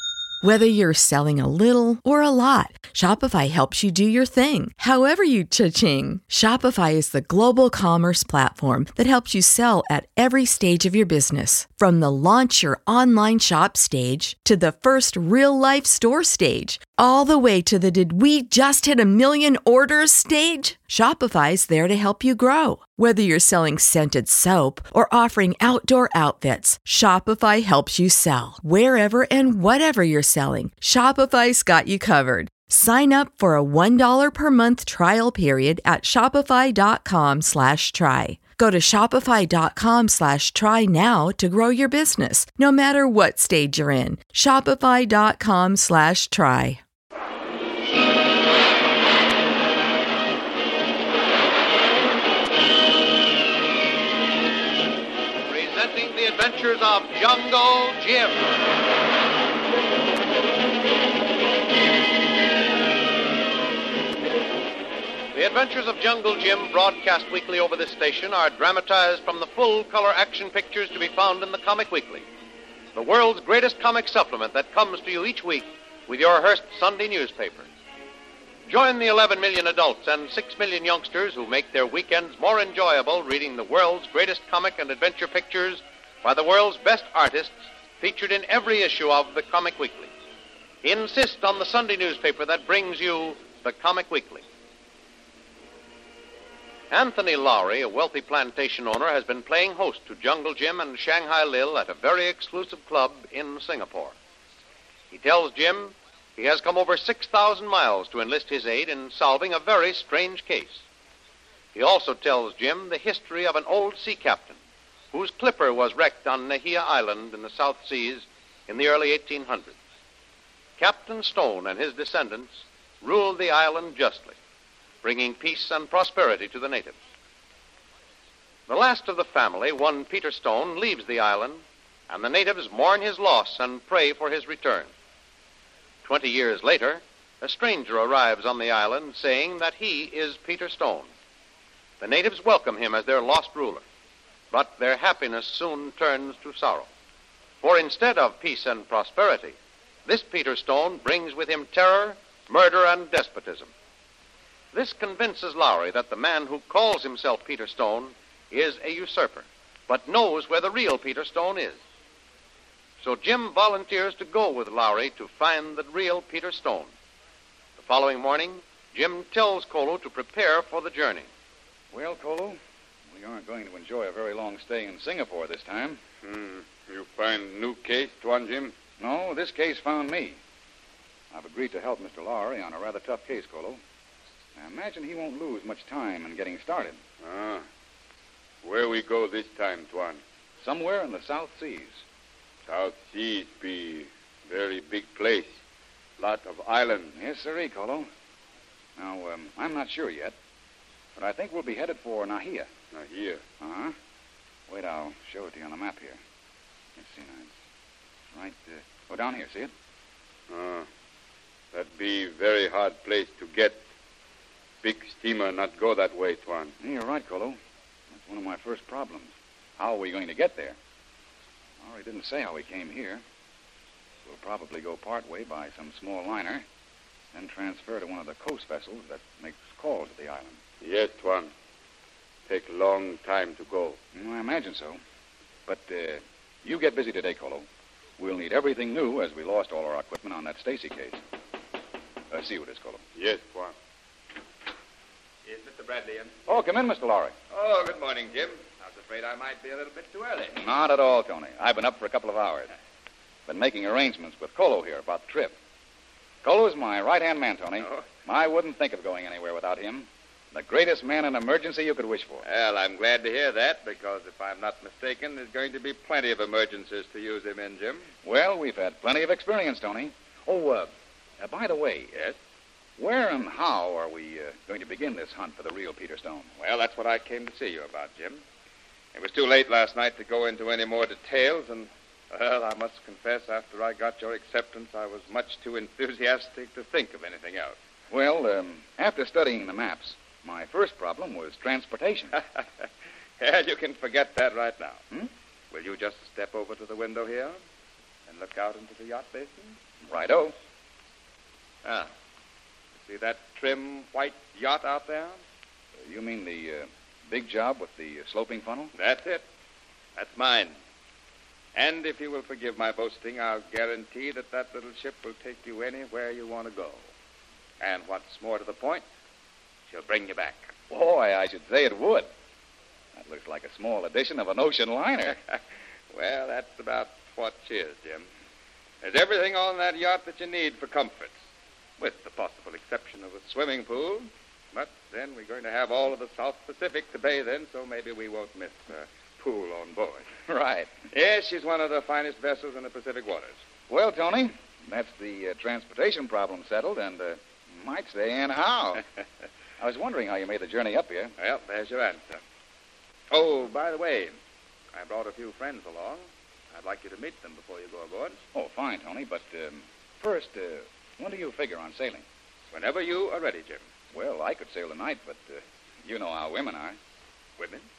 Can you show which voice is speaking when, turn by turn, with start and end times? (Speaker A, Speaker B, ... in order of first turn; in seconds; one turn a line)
Speaker A: 0.4-46.8
Speaker B: 55.5-58.5
Speaker B: 65.3-72.3
Speaker B: 72.9-77.7
Speaker B: 78.7-90.1
Speaker B: 90.8-94.4
Speaker B: 96.9-104.2
Speaker B: 105.1-110.8
Speaker B: 111.7-114.6
Speaker B: 115.1-119.8
Speaker B: 120.8-124.3
Speaker B: 125.0-127.0
Speaker B: 128.7-134.9
Speaker B: 136.0-141.1
Speaker B: 142.0-143.8
Speaker B: 144.5-146.9
Speaker B: 147.6-153.7
Speaker B: 154.7-161.8
Speaker B: 163.0-166.9
Speaker B: 167.8-171.3
Speaker C: 171.9-172.6
Speaker C: 173.1-176.0
Speaker D: 176.2-178.7
Speaker C: 179.0-180.4
Speaker C: 181.3-183.8
Speaker C: 184.6-187.0
Speaker D: 187.2-187.6
Speaker D: 188.6-190.2
Speaker C: 190.6-192.0
Speaker D: 192.7-195.6
Speaker D: 196.2-197.1
Speaker C: 197.1-198.1
Speaker C: 199.0-200.3
Speaker C: 201.2-202.7
Speaker D: 202.9-203.4
Speaker C: 203.6-203.9
Speaker C: 204.7-206.2
Speaker C: 207.0-207.5
Speaker C: 208.3-209.7
Speaker D: 210.5-210.9
Speaker D: 211.7-213.8
Speaker D: 214.8-216.7
Speaker C: 216.8-217.6
Speaker C: 218.1-220.8
Speaker C: 221.8-223.2
Speaker C: 224.2-226.6
Speaker C: 227.3-230.6
Speaker D: 230.8-231.5
Speaker D: 232.5-234.0
Speaker C: 234.1-235.0
Speaker C: 235.7-237.7
Speaker C: 238.2-241.2
Speaker C: 242.3-243.0
Speaker D: 243.2-243.7
Speaker E: 245.4-246.3
Speaker C: 246.5-247.3
Speaker D: 247.5-248.7
Speaker E: 248.0-250.5
Speaker C: 250.6-252.7
Speaker C: 253.5-255.5
Speaker C: 256.4-262.4
Speaker E: 262.4-268.1
Speaker C: 268.2-272.1
Speaker C: 273.0-276.5
Speaker E: 276.6-278.4
Speaker E: 279.1-287.8
Speaker C: 288.1-292.4
Speaker E: 293.4-295.0
Speaker E: 295.7-297.6
Speaker E: 298.2-299.8
Speaker C: 300.0-300.6
Speaker E: 303.0-305.4
Speaker C: 306.0-308.9
Speaker D: 308.9-309.3
Speaker E: 310.1-310.7
Speaker E: 311.7-317.1
Speaker D: 313.9-316.9
Speaker E: 317.8-319.0
Speaker E: 319.9-320.7
Speaker C: 320.9-322.3
Speaker C: 323.1-325.4
Speaker E: 326.1-328.3
Speaker D: 327.2-327.5
Speaker D: 329.0-330.9
Speaker E: 329.1-331.3
Speaker E: 332.0-340.3
Speaker D: 333.6-334.2
Speaker D: 339.4-339.9
Speaker C: 340.5-340.9
Speaker E: 341.1-343.6
Speaker C: 343.9-349.0
Speaker C: 349.8-351.3
Speaker E: 351.4-352.4
Speaker D: 353.3-353.9
Speaker E: 353.5-354.3
Speaker E: 354.9-358.4
Speaker C: 358.5-362.2
Speaker E: 362.7-363.8
Speaker C: 364.1-367.0
Speaker E: 367.6-367.9